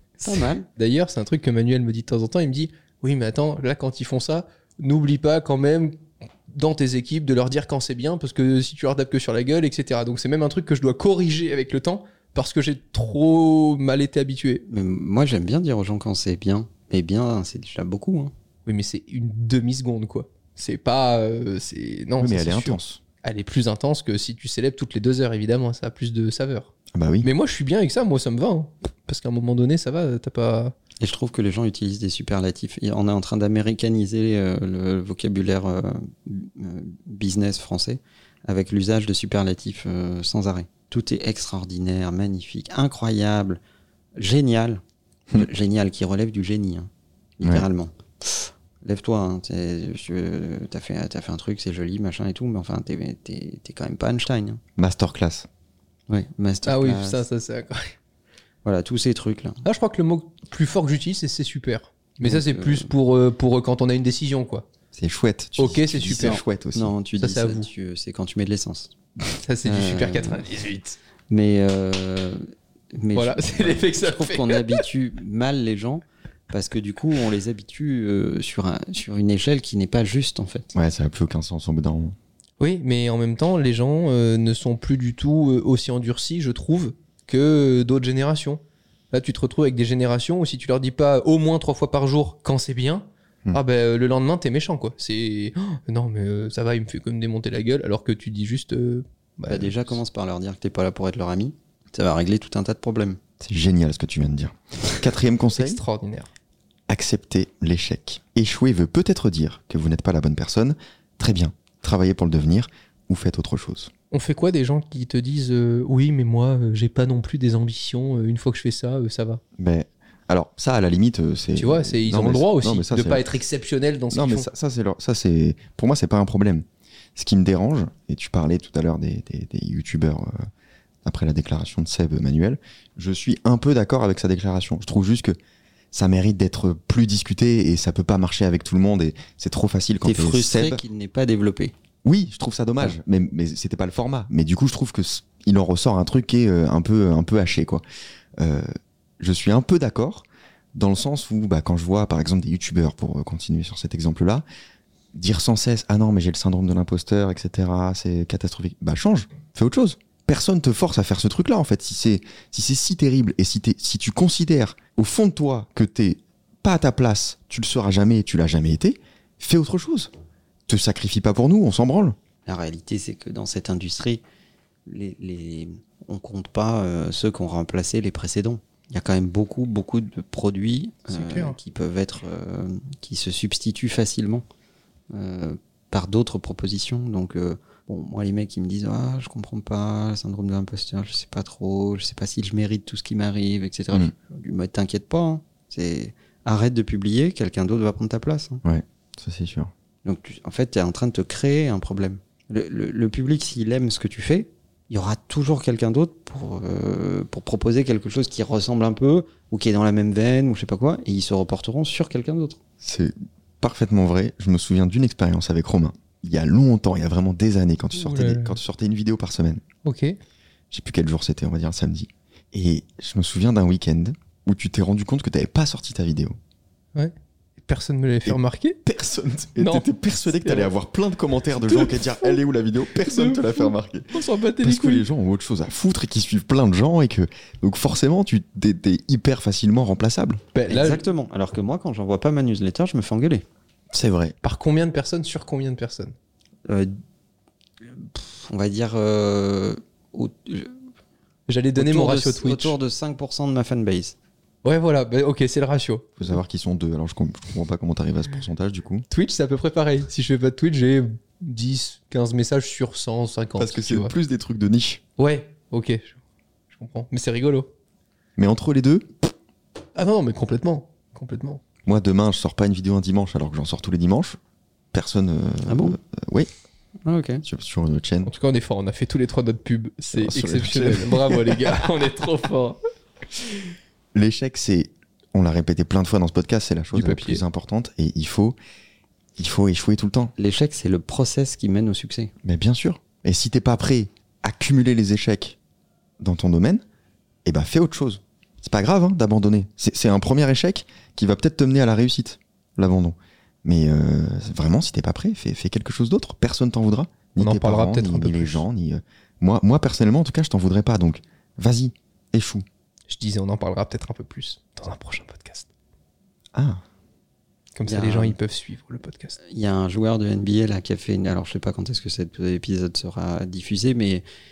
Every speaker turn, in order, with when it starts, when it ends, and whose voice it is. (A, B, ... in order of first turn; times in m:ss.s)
0:00.2-0:00.6 A
0:00.8-0:14.6 B
0:14.7-0:18.3 A
0:18.6-0:26.7 B
0:22.2-0:23.0 C
0:26.9-0:27.3 C
0:27.2-0:30.8 B
0:31.0-0:43.6 A
0:44.2-0:46.9 A
0:47.4-0:54.6 A
0:54.8-0:55.5 C
0:56.1-0:57.2 A
0:56.6-0:57.9 B
0:58.6-0:59.6 A
0:59.6-1:04.7 B
1:02.2-1:02.9 A
1:04.9-1:06.9 C
1:05.6-1:06.4 B
1:06.1-1:08.9 A
1:07.2-1:07.7 B
1:09.4-1:11.0 B
1:09.6-1:10.4 A
1:11.3-1:20.7 A
1:13.1-1:14.8 B
1:20.7-1:22.2 C
1:22.6-1:40.0 B
1:39.5-1:43.2 A
1:43.4-1:45.8 C
1:45.6-1:46.3 B
1:46.9-1:53.9 C
1:54.1-1:59.4 B
1:59.6-2:03.3 C
2:01.5-2:04.5 B
2:04.1-2:06.6 C
2:07.2-2:10.5 C
2:11.0-2:15.4 C
2:15.9-2:20.8 C
2:20.0-2:21.7 A
2:22.0-2:27.8 C
2:28.4-2:34.4 C
2:35.1-2:50.1 C
2:50.7-2:52.2 C
2:52.4-2:54.2 A
2:54.9-3:04.4 A
3:01.1-3:01.6 B
3:05.1-3:18.6 A
3:18.6-3:19.7 C
3:20.0-3:32.6 A
3:32.8-3:39.6 C
3:38.0-3:38.6 B
3:39.8-3:40.2 B
3:40.7-3:46.4 C
3:47.6-3:48.8 B
3:48.2-4:00.4 C
3:49.6-3:50.7 B
3:51.6-3:52.4 B
3:53.0-3:55.0 B
4:00.5-4:01.0 B
4:00.7-4:03.4 A
4:03.9-4:04.3 C
4:04.4-4:06.1 B
4:06.7-4:06.9 A
4:07.8-4:10.8 A
4:11.5-4:12.8 B
4:11.8-4:14.1 A
4:14.6-4:16.2 B
4:16.2-4:19.0 C
4:19.1-4:24.1 B
4:23.6-4:25.0 C
4:25.2-4:26.2 B
4:26.7-4:27.7 B
4:28.4-4:29.2 C
4:30.0-4:31.6 B
4:31.8-4:34.4 C
4:34.9-4:36.5 C
4:35.6-4:36.0 A
4:37.0-4:37.4 A
4:37.4-4:38.3 C
4:38.2-4:42.8 B
4:40.1-4:41.8 C
4:43.4-4:43.6 B
4:44.1-4:48.6 C
4:46.9-4:47.4 B
4:49.4-4:50.3 C
4:50.4-4:52.3 A
4:52.4-4:55.6 C
4:56.2-4:56.8 C
4:57.4-5:12.6 C
5:07.4-5:08.6 B
5:13.1-5:15.7 B
5:16.5-5:16.8 C
5:17.8-5:19.4 B
5:17.9-5:18.4 A
5:19.4-5:24.2 A